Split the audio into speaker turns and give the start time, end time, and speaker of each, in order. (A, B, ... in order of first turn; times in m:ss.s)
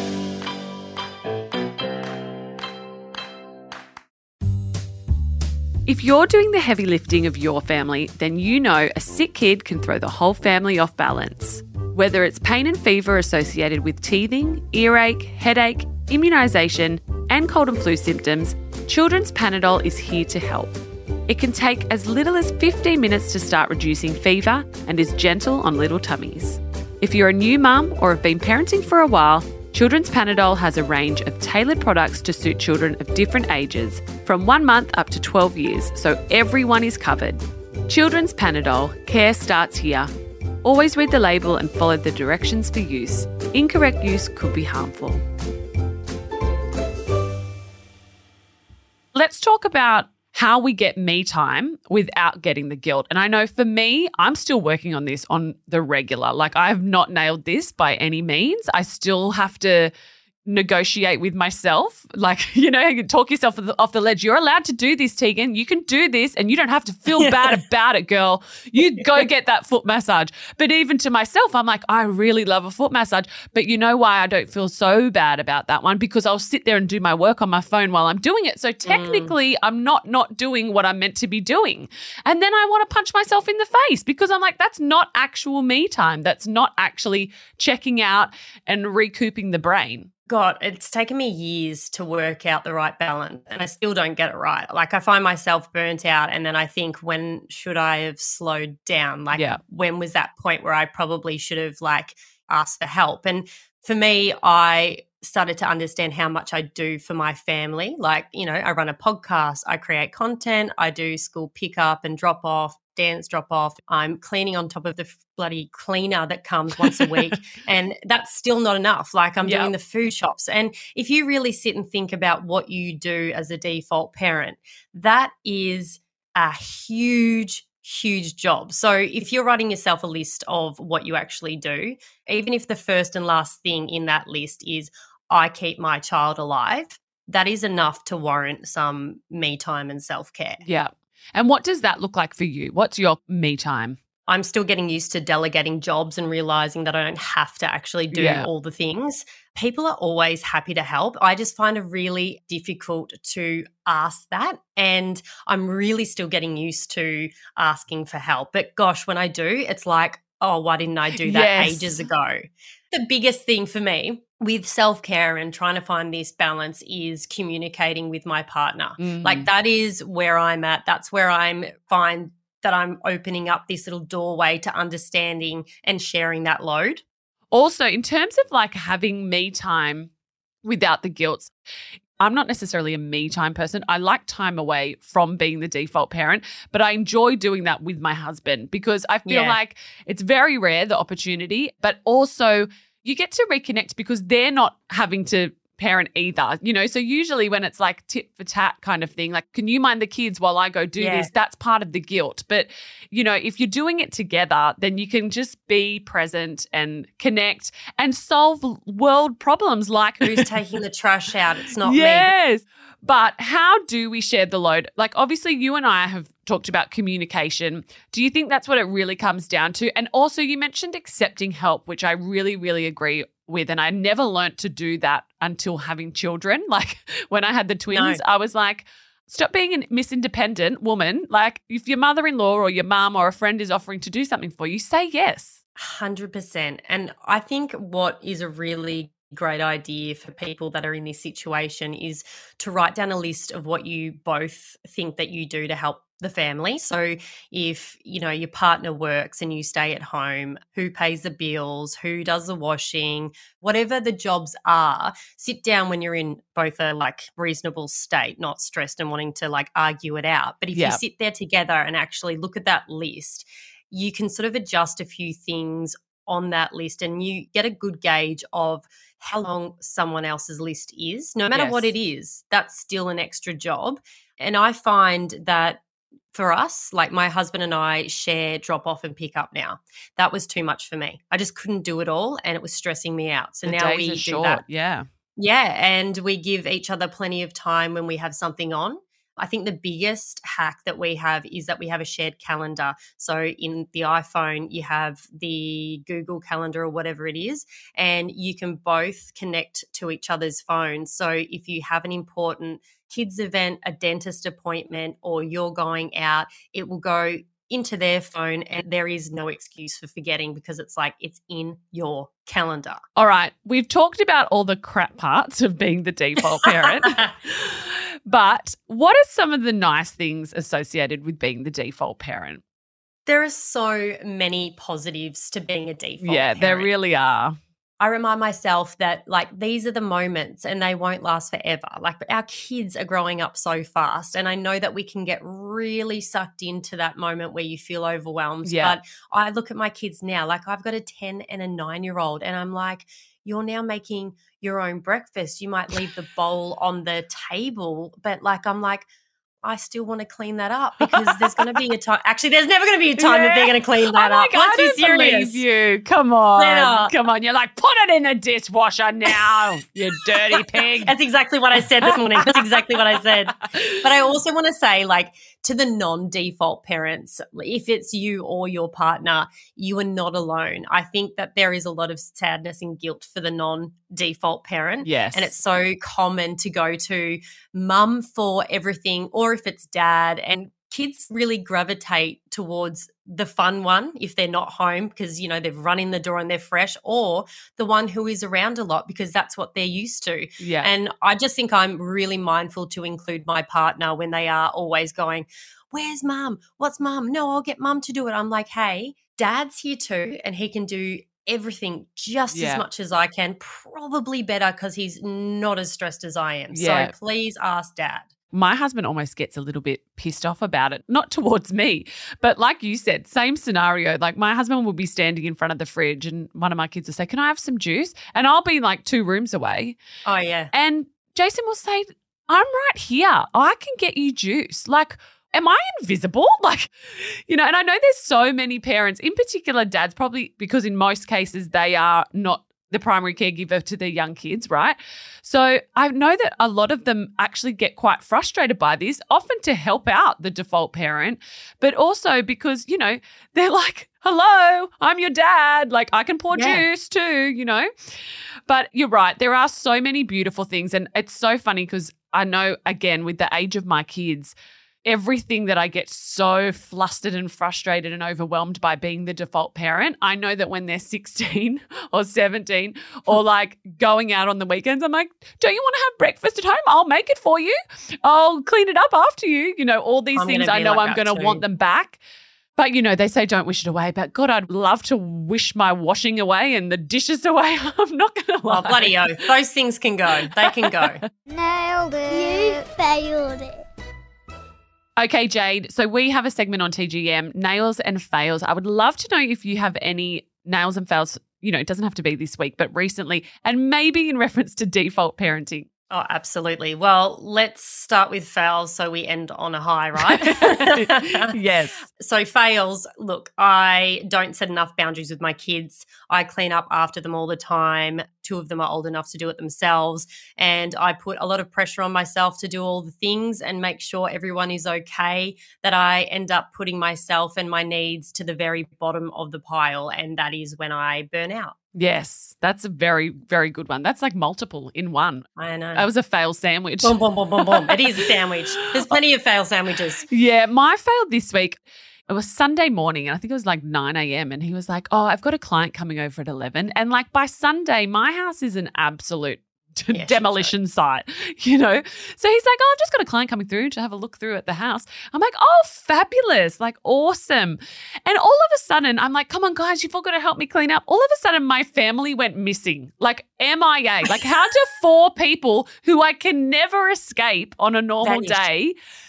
0:05.8-0:40.1 A
0:40.6-0:45.2 A
0:49.1-0:59.9 A
1:00.4-1:30.1 A
1:07.2-1:07.6 B
1:18.8-1:19.3 B
1:30.3-2:20.6 B
1:39.3-1:39.6 A
1:56.8-1:57.4 A
1:59.4-1:59.7 A
2:20.6-2:24.0 A
2:24.3-2:57.0 B
2:28.1-2:28.5 A
2:41.1-2:42.0 A
2:49.0-2:49.5 A
2:57.5-3:00.1 A
3:00.6-3:01.5 A
3:02.2-3:30.5 A
3:09.2-3:09.6 B
3:21.0-3:21.3 B
3:30.2-3:32.3 B
3:31.8-3:55.6 A
3:47.9-3:48.2 B
3:55.8-4:35.8 B
4:20.7-4:21.0 A
4:31.5-4:31.9 A
4:36.3-4:44.6 B
4:43.6-4:45.1 A
4:45.4-5:13.0 B
5:13.2-5:22.6 A
5:16.6-5:17.1 B
5:23.2-5:26.9 B
5:26.2-5:27.5 A
5:28.0-5:49.0 B
5:38.6-5:39.0 A
5:49.6-5:55.6 B
5:51.0-5:51.7 A
5:53.2-6:01.1 A
5:56.6-5:57.1 B
6:00.3-6:48.3 B
6:01.8-6:04.0 A
6:15.0-6:15.6 A
6:30.6-6:30.9 A
6:42.5-6:42.8 A
6:46.7-6:47.1 A
6:48.5-7:00.0 A
7:00.2-7:00.7 B
7:00.7-7:27.9 A
7:26.5-7:26.8 B
7:28.7-7:52.2 A
7:50.3-7:51.6 B
7:52.8-7:59.2 A
7:58.7-8:01.2 B
8:00.6-8:01.1 A
8:01.5-8:03.8 C
8:05.2-8:15.9 A
8:16.1-8:21.5 B
8:20.2-8:22.0 A
8:22.2-8:41.7 B
8:41.9-8:48.2 A
8:45.6-8:46.1 B
8:47.0-8:50.2 B
8:50.3-9:19.0 A
9:00.1-9:00.7 B
9:18.2-9:18.7 B